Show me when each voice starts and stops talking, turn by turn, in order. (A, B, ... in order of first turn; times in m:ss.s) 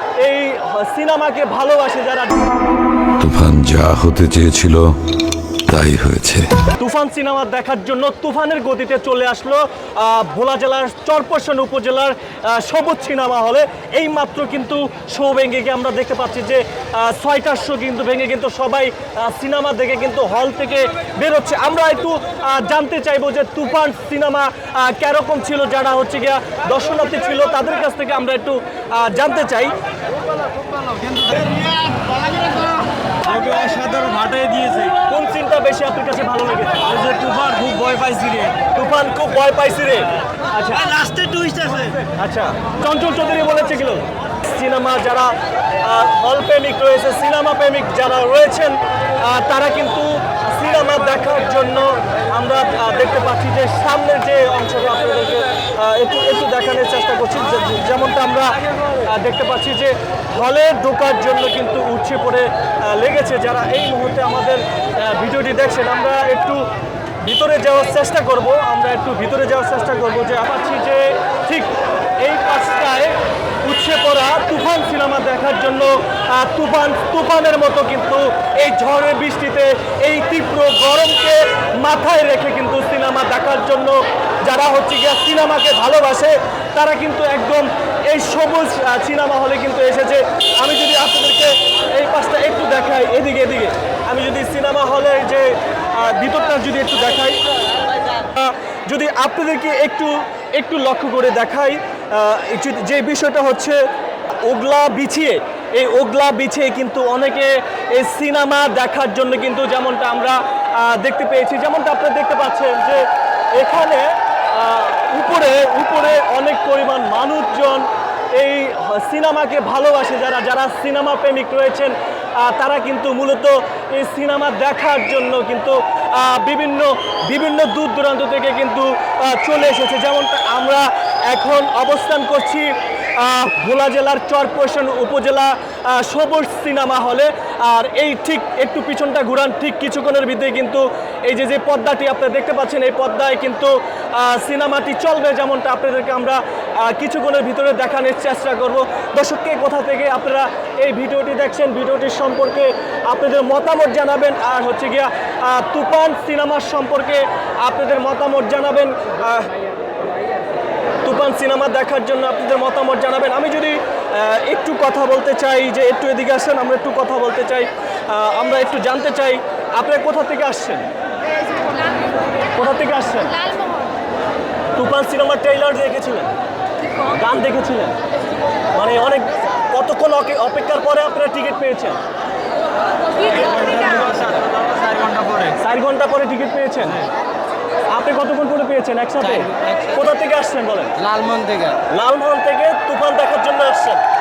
0:00.2-0:02.5 A
0:03.2-0:04.9 B
0:05.7-0:06.5 B
0:06.8-0:29.7 A
0:30.9-0:32.6 C
0:33.3-0:34.9 C
0:34.9-0:37.0 A
0:37.0-0:38.5 C
0:38.6-0:40.9 A
0:40.9-0:42.0 C
0:42.1-0:45.3 A
0:45.8-1:06.6 A
1:07.2-1:37.4 A
1:38.2-1:43.8 A
1:44.4-2:39.6 A
2:41.0-2:50.8 A
2:52.5-2:53.5 A
2:54.8-2:56.3 A
2:57.0-2:58.0 A
2:58.7-3:02.0 A
3:03.4-3:05.5 C
3:05.6-3:07.0 A
3:07.9-3:11.0 A
3:11.0-3:11.8 C
3:11.9-3:14.0 A